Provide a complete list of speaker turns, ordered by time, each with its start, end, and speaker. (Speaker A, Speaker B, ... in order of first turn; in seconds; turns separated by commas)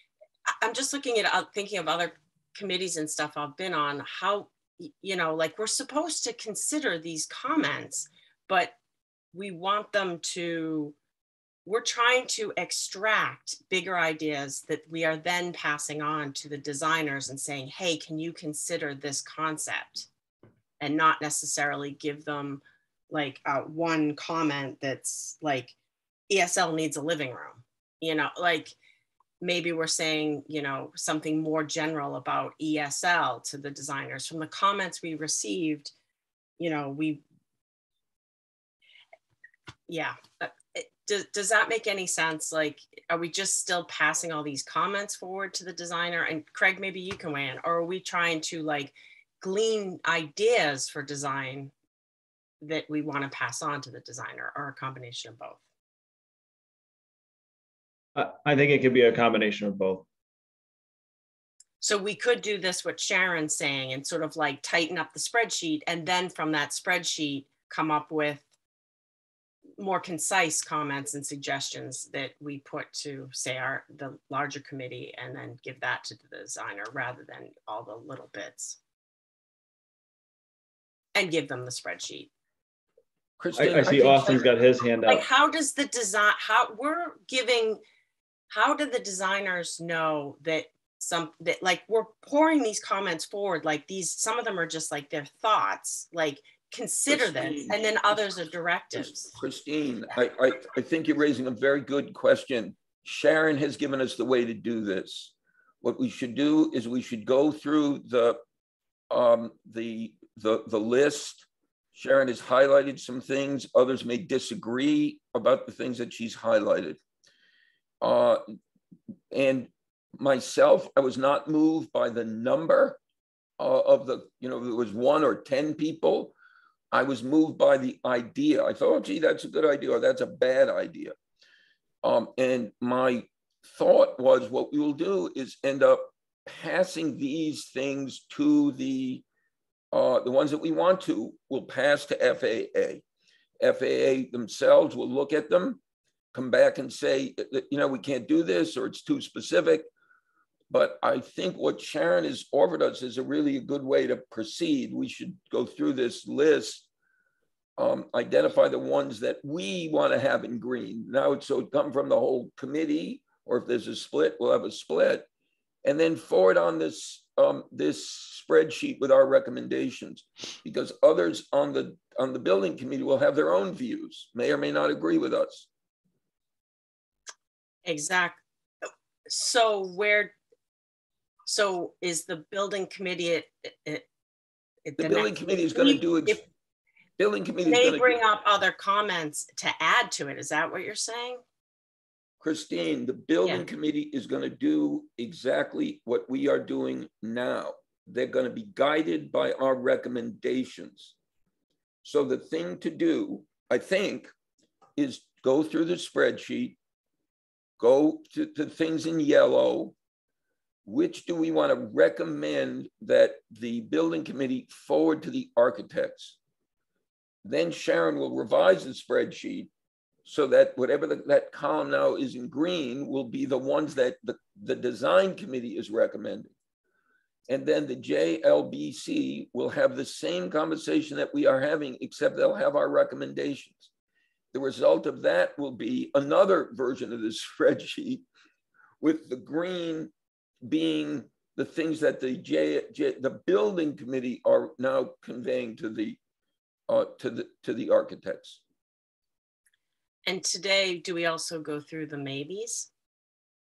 Speaker A: 0.5-8.8, Speaker A: 9.3-10.9, Speaker A: 11.7-20.1, Speaker A: 20.8-25.8, Speaker A: 26.3-28.8, Speaker A: 29.4-35.9, Speaker A: 36.6-37.2, Speaker A: 39.9-51.7, Speaker A: 52.6-55.6, Speaker B: 58.1-60.1, Speaker A: 61.8-68.4, Speaker A: 69.8-78.8, Speaker A: 81.2-82.3, Speaker C: 83.4-84.5, Speaker B: 83.6-85.2, Speaker A: 85.0-87.8, Speaker A: 88.5-99.3, Speaker C: 97.1-98.1, Speaker C: 99.0-108.4, Speaker C: 109.1-117.0, Speaker C: 118.0-118.4, Speaker C: 119.3-123.0, Speaker C: 123.6-126.3, Speaker C: 126.9-131.2, Speaker C: 132.0-139.2, Speaker C: 139.9-143.0, Speaker C: 143.6-145.8, Speaker C: 146.3-149.9, Speaker C: 150.7-156.9, Speaker C: 157.8-165.3, Speaker C: 165.8-175.7, Speaker A: 177.9-178.4, Speaker A: 179.3-180.3, Speaker A: 181.5-184.1, Speaker A: 184.9-186.4, Speaker C: 185.0-186.4, Speaker C: 187.2-188.2, Speaker A: 187.6-191.4, Speaker C: 192.4-201.1, Speaker C: 202.0-204.3, Speaker C: 205.0-206.8, Speaker C: 207.8-209.9, Speaker C: 210.9-216.4, Speaker C: 217.4-219.7, Speaker C: 220.2-226.5, Speaker C: 227.5-233.9, Speaker C: 234.5-238.2, Speaker C: 239.0-240.1, Speaker C: 240.6-246.2, Speaker C: 246.9-248.6, Speaker A: 250.3-252.9